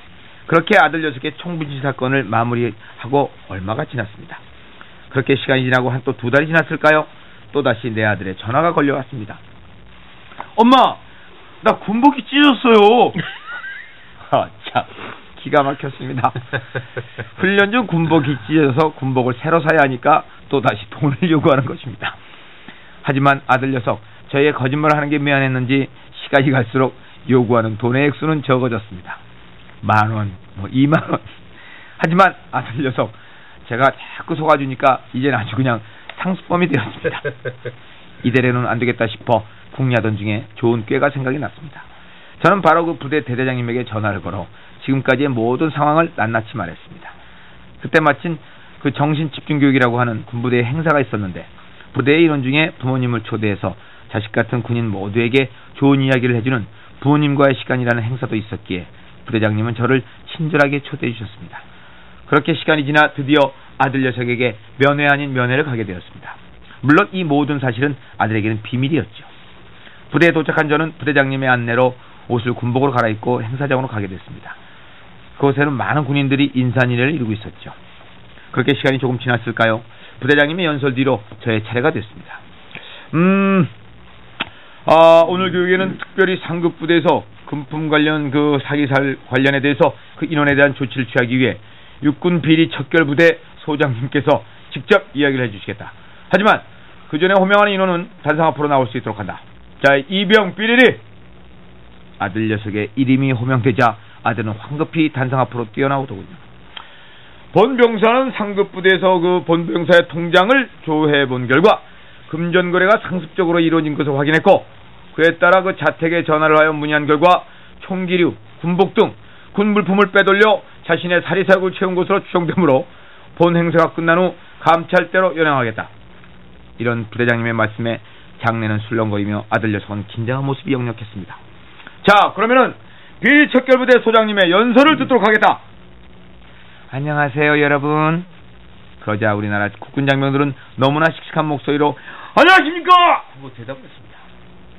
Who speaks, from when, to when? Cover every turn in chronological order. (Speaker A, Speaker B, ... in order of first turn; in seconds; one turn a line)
Speaker A: 0.5-4.4
Speaker A: 5.1-9.4
Speaker A: 10.6-11.0
Speaker A: 11.6-13.2
Speaker A: 14.3-16.5
Speaker A: 17.4-22.2
Speaker A: 23.0-29.2
Speaker A: 29.8-31.3
Speaker A: 32.0-37.3
Speaker A: 38.2-41.9
Speaker A: 42.4-47.1
Speaker A: 47.8-61.6
Speaker A: 62.3-69.3
Speaker A: 70.1-74.6
Speaker A: 75.4-77.8
Speaker A: 78.5-82.4
Speaker A: 83.1-83.7
Speaker A: 84.9-101.0
Speaker A: 102.2-106.4
Speaker A: 107.5-125.9
Speaker A: 126.8-131.4
Speaker A: 132.0-135.6
Speaker A: 136.9-138.3
Speaker A: 139.0-144.2